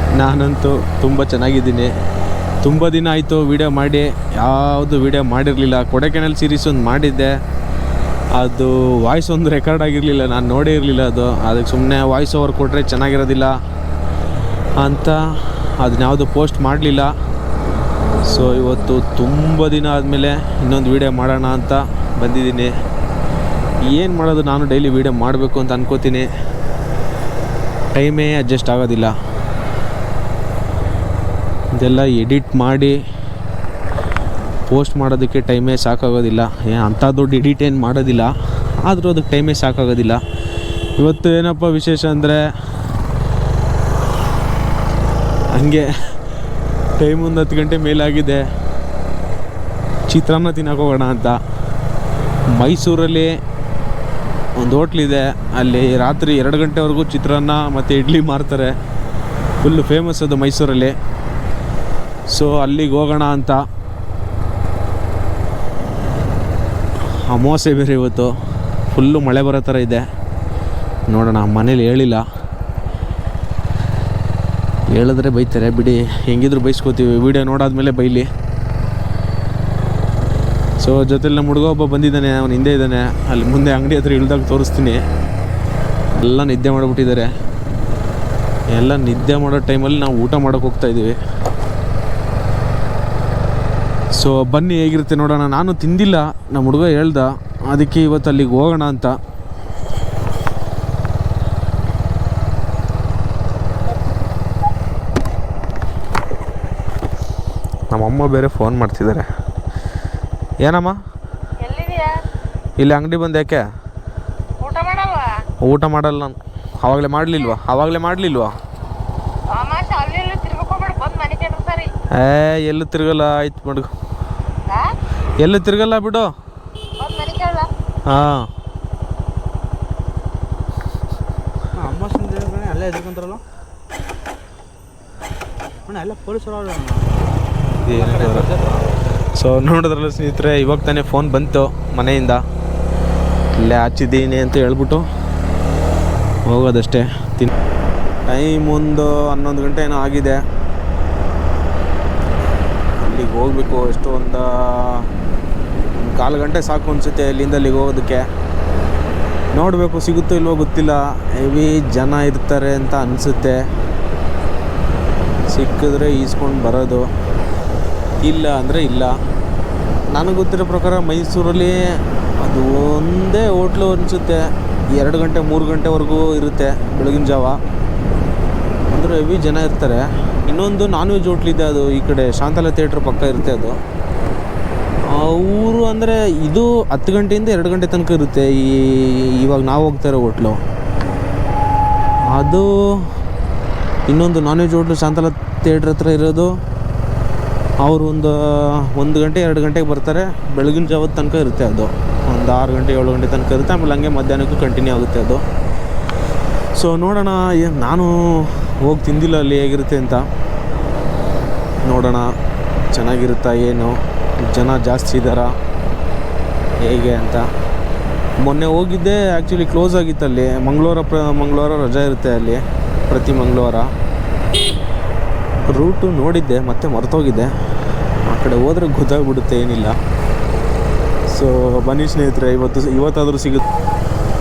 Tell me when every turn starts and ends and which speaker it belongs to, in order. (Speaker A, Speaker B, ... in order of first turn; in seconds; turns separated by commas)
Speaker A: 0.1-1.9, Speaker A: 2.6-7.4, Speaker A: 8.3-13.5, Speaker A: 14.8-17.1, Speaker A: 18.2-22.7, Speaker A: 23.9-26.3, Speaker A: 27.9-29.1, Speaker A: 31.8-33.0, Speaker A: 34.7-38.3, Speaker A: 38.8-40.2, Speaker A: 41.0-42.4, Speaker A: 45.5-45.9, Speaker A: 47.0-48.5, Speaker A: 50.1-51.4, Speaker A: 52.5-53.3, Speaker A: 54.6-58.7, Speaker A: 59.6-60.9, Speaker A: 62.3-63.6, Speaker A: 67.2-68.3, Speaker A: 68.9-70.0, Speaker A: 71.1-72.2, Speaker A: 74.9-78.3, Speaker A: 80.8-85.0, Speaker A: 86.2-87.3, Speaker A: 88.7-91.2, Speaker A: 94.2-99.2, Speaker A: 107.9-109.3, Speaker A: 110.6-111.0, Speaker B: 111.6-112.2, Speaker A: 112.8-113.6, Speaker B: 114.6-115.4, Speaker A: 115.6-118.5, Speaker B: 119.5-121.9, Speaker A: 122.1-123.9, Speaker B: 124.7-124.9, Speaker A: 125.4-126.3, Speaker B: 127.0-127.7, Speaker A: 128.0-128.5, Speaker C: 131.8-133.4, Speaker C: 135.9-137.1, Speaker A: 137.8-138.5, Speaker C: 137.9-138.9, Speaker A: 139.3-142.4, Speaker A: 143.5-145.0, Speaker A: 146.5-147.5, Speaker A: 148.3-150.4, Speaker A: 153.0-155.1, Speaker A: 156.0-158.3, Speaker A: 159.5-163.6, Speaker A: 165.5-167.1, Speaker A: 168.2-169.1, Speaker A: 170.1-171.8, Speaker A: 172.4-177.6, Speaker A: 178.9-183.8, Speaker A: 185.1-190.6, Speaker A: 192.3-193.1, Speaker A: 194.1-196.5, Speaker A: 197.8-205.4, Speaker A: 206.7-210.2, Speaker A: 211.8-212.3, Speaker A: 212.9-215.5, Speaker A: 216.8-217.4, Speaker A: 218.4-223.9, Speaker A: 225.7-227.5, Speaker A: 228.2-229.9, Speaker A: 231.3-233.6